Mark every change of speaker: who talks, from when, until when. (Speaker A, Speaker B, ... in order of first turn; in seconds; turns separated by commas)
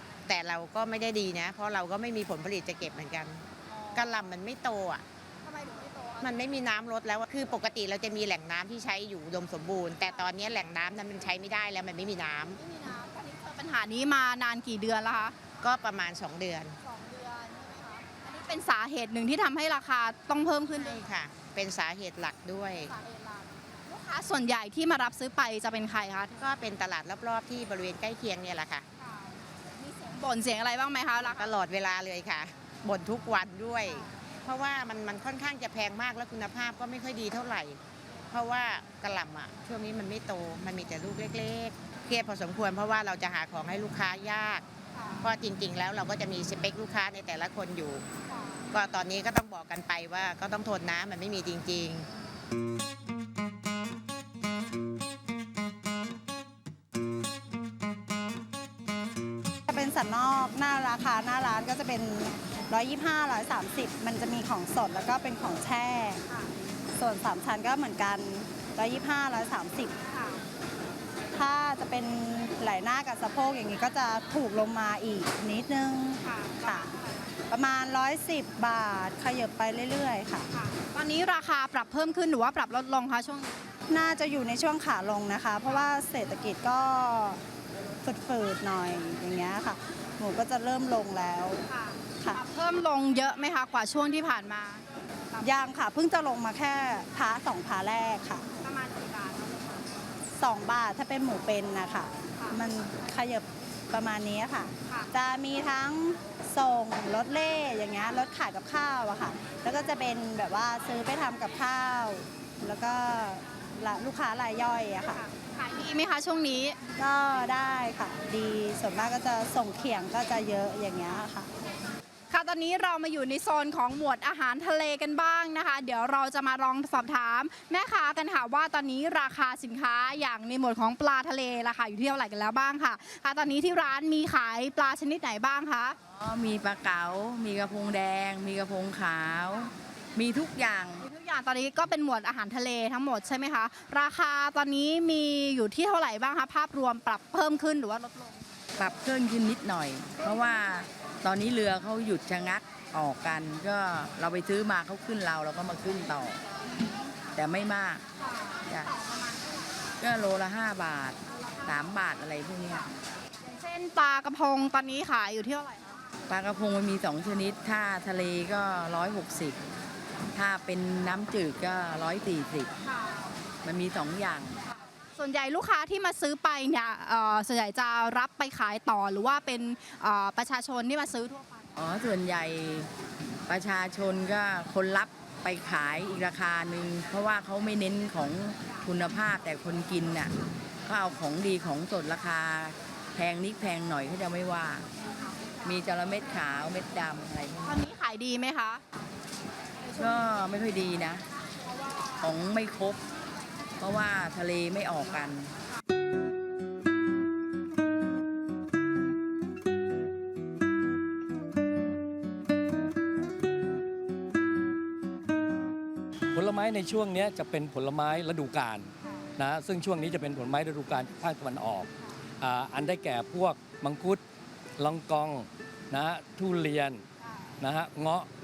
Speaker A: 0.2-5.0, Speaker B: 3.7-4.2, Speaker B: 5.4-6.3, Speaker A: 6.2-12.6, Speaker B: 12.6-15.4, Speaker A: 15.6-16.8, Speaker B: 16.8-21.0, Speaker A: 20.7-22.9, Speaker B: 22.9-26.3, Speaker A: 26.3-28.9, Speaker B: 29.0-31.5, Speaker A: 31.1-44.6, Speaker A: 45.2-48.0, Speaker A: 48.7-52.1, Speaker C: 59.7-66.2, Speaker C: 66.9-69.9, Speaker B: 70.1-70.4, Speaker C: 71.3-76.9, Speaker B: 76.2-77.3, Speaker C: 77.5-80.5, Speaker B: 80.5-83.5, Speaker C: 83.9-87.4, Speaker C: 88.0-91.6, Speaker B: 91.7-95.7, Speaker C: 95.4-98.5, Speaker B: 98.5-99.8, Speaker C: 100.3-115.2, Speaker B: 115.5-116.8, Speaker C: 117.0-121.5, Speaker B: 122.3-136.0, Speaker D: 136.1-141.1, Speaker B: 141.0-148.4, Speaker D: 148.8-156.4, Speaker D: 157.3-158.0, Speaker B: 158.3-159.3, Speaker D: 158.7-158.9, Speaker D: 160.0-162.8, Speaker B: 163.4-166.0, Speaker D: 166.3-169.6, Speaker D: 170.3-172.7, Speaker D: 173.6-174.6, Speaker B: 175.2-181.7, Speaker D: 181.8-182.9, Speaker D: 183.5-194.8, Speaker D: 195.6-197.8, Speaker B: 197.6-198.8, Speaker D: 200.0-201.2, Speaker D: 202.2-203.0, Speaker D: 203.8-205.5, Speaker E: 216.3-224.2, Speaker E: 224.8-227.0, Speaker E: 227.6-228.3